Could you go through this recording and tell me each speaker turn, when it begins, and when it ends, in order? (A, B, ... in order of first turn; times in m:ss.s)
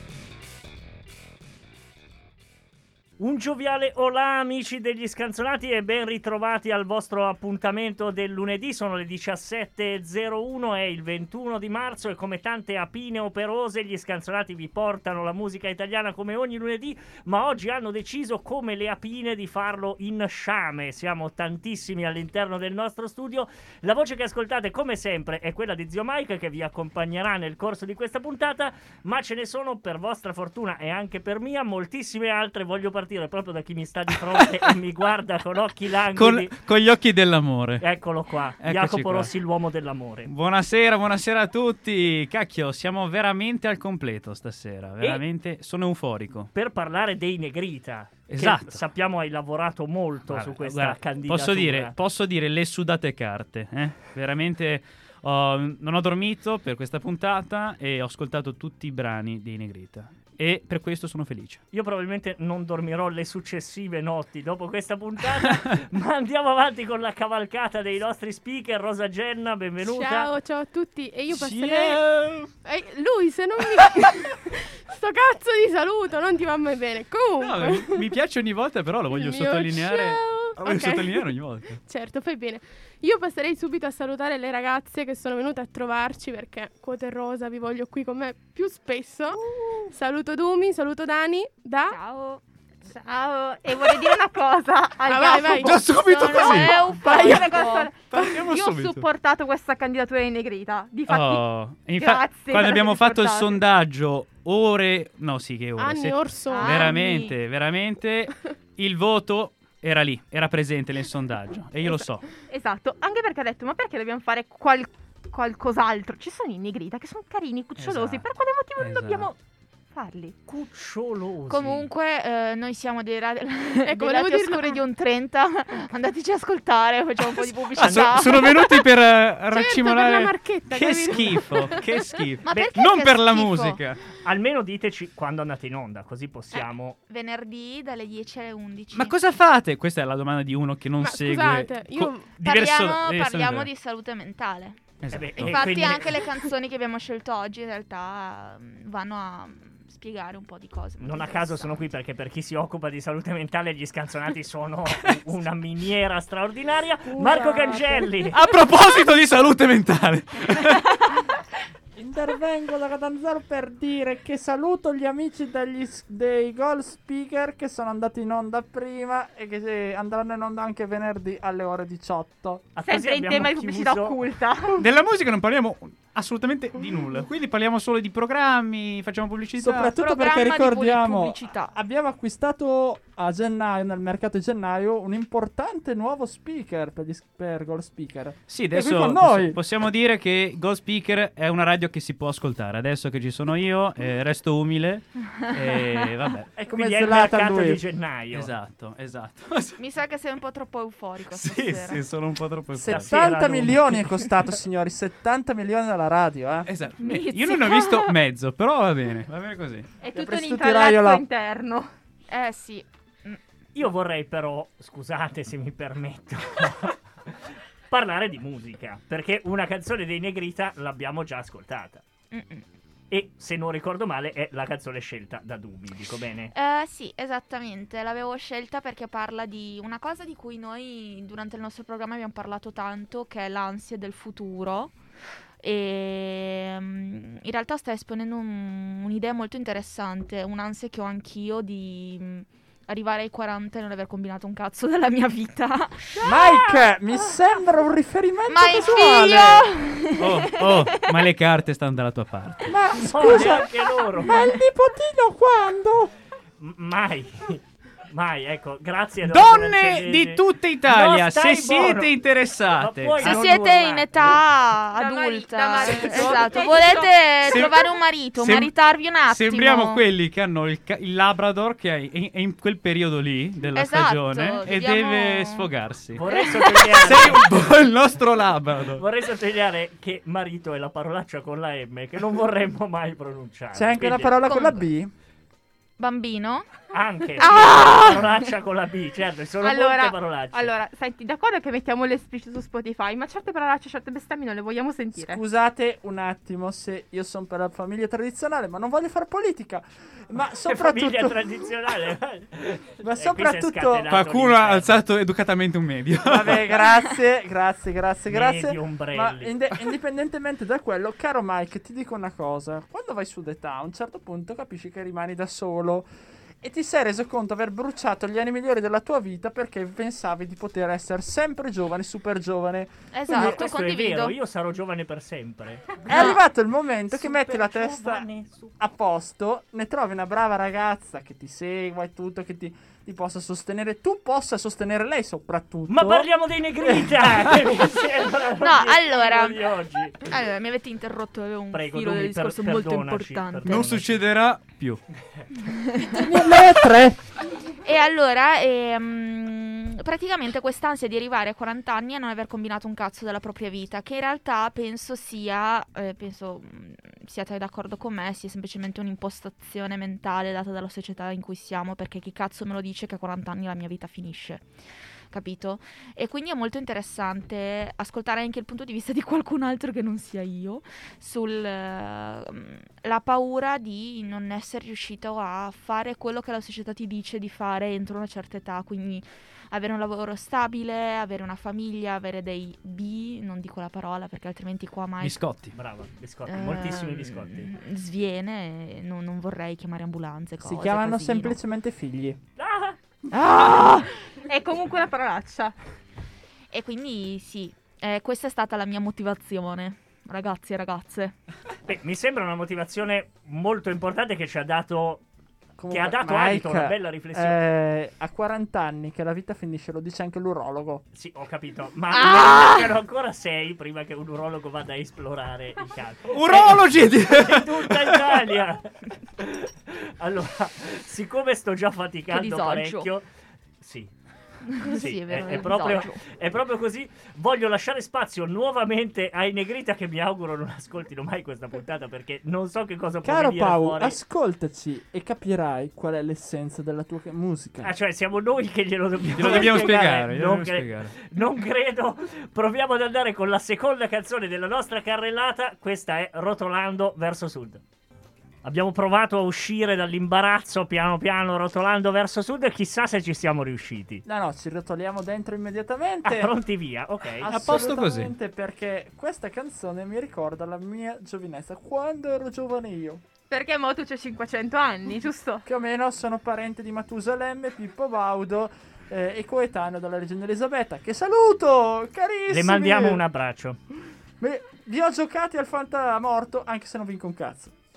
0:03.2-0:36.5 A
0:36.1-0:37.8 B
0:37.8-0:40.3 A
0:38.6-0:39.3 B
0:40.3-0:46.5 B
0:46.5-0:51.9 A
0:48.3-0:48.8 B
0:50.3-1:01.6 B
1:01.7-1:10.3 A
1:09.8-1:12.0 C
1:11.3-1:12.5 B
1:12.6-1:18.1 C
1:17.4-1:21.8 B
1:19.1-1:21.3 C
1:21.8-1:32.0 C
1:31.9-1:32.4 D
1:32.9-1:41.5 E
1:35.0-1:36.0 C
1:35.6-1:37.5 B
1:36.1-1:37.9 D
1:38.1-1:39.1 B
1:41.1-1:52.3 B
1:42.0-1:43.6 E
1:45.8-1:46.9 C
1:46.5-1:47.3 D
1:52.5-1:59.4 E
1:57.8-1:59.3 B
1:59.9-2:00.4 E
2:00.5-2:01.9 A
2:01.5-2:08.8 D
2:03.8-2:04.8 C
2:07.8-2:14.0 B
2:09.5-2:11.8 C
2:12.4-2:13.8 D
2:14.2-2:17.0 A
2:16.6-2:19.2 D
2:18.9-2:23.7 B
2:21.0-2:22.3 C
2:22.4-2:31.8 D
2:25.0-2:26.0 B
2:25.1-2:26.2 A
2:31.0-2:38.4 A
2:37.1-2:38.2 C
2:38.3-2:41.2 B
2:42.0-2:52.7 F
2:52.8-2:54.2 A
2:52.8-2:54.8 E
2:54.8-2:59.9 B
2:59.6-3:09.6 F
3:00.0-3:01.7 D
3:08.5-3:16.5 B
3:16.6-3:17.8 F
3:16.6-3:18.5 A
3:18.3-3:19.8 B
3:19.8-3:22.0 D
3:21.3-3:23.2 B
3:22.7-3:26.7 F
3:22.9-3:24.2 A
3:26.7-3:29.9 B
3:27.0-3:28.0 E
3:27.4-3:28.1 D
3:30.0-3:31.9 E
3:30.2-3:31.2 F
3:32.3-3:33.4 D
3:33.8-3:37.3 A
3:37.9-3:42.0 A
3:42.3-3:42.7 D
3:43.1-3:46.5 A
3:46.5-3:54.9 D
3:55.6-4:06.2 D
4:06.2-4:09.7 F
4:08.5-4:11.1 D
4:10.2-4:13.4 B
4:12.6-4:16.1 F
4:13.0-4:14.4 A
4:16.6-4:22.1 A
4:19.2-4:23.4 B
4:22.7-4:24.4 A
4:23.2-4:30.0 D
4:24.9-4:27.3 E
4:27.4-4:27.8 B
4:28.4-4:28.7 B
4:29.3-4:36.2 B
4:33.7-4:35.7 D
4:36.2-4:37.5 A
4:36.2-4:36.8 D
4:36.8-4:39.0 B
4:39.0-4:44.4 A
4:43.7-4:45.1 F
4:44.4-4:44.9 D
4:46.0-4:46.7 D
4:46.9-4:50.7 A
4:47.4-4:48.3 E
4:47.4-4:48.3 D
4:49.6-4:55.4 E
4:55.2-5:01.4 F
5:00.6-5:05.0 A
5:03.0-5:04.1 F
5:04.1-5:06.7 B
5:06.2-5:16.1 F
5:08.3-5:09.6 A
5:16.6-5:23.5 F
5:23.1-5:24.4 D
5:23.3-5:26.1 A
5:26.1-5:36.3 F
5:26.1-5:26.4 D
5:27.1-5:28.7 A
5:35.9-5:40.2 A
5:36.8-5:37.5 F
5:38.6-5:43.9 D
5:41.7-5:44.2 A
5:43.7-5:45.0 B
5:45.6-5:46.7 D
5:46.1-5:47.2 F
5:47.8-6:04.6 D
6:05.3-6:25.4 D
6:25.2-6:25.7 B
6:25.7-6:27.8 A
6:26.5-6:31.6 D
6:30.6-6:32.4 F
6:32.6-6:33.0 A
6:33.3-6:34.1 D
6:34.4-6:35.8 E
6:36.7-6:41.4 D
6:41.9-6:45.2 A
6:45.8-6:51.0 F
6:45.9-6:47.6 A
6:51.1-7:03.2 A
6:52.1-6:52.9 D
6:56.3-6:58.4 B
7:02.3-7:03.1 D
7:03.8-7:04.1 A
7:04.7-7:06.2 D
7:04.8-7:14.2 A
7:13.2-7:17.9 F
7:17.8-7:27.8 A
7:19.2-7:21.1 B
7:19.4-7:20.0 F
7:28.6-7:34.2 A
7:34.2-7:36.5 F
7:36.2-7:37.5 A
7:37.4-7:43.2 F
7:37.5-7:38.3 B
7:43.5-7:45.6 E
7:45.6-7:53.2 F
7:52.5-7:53.8 A
7:54.4-7:57.7 F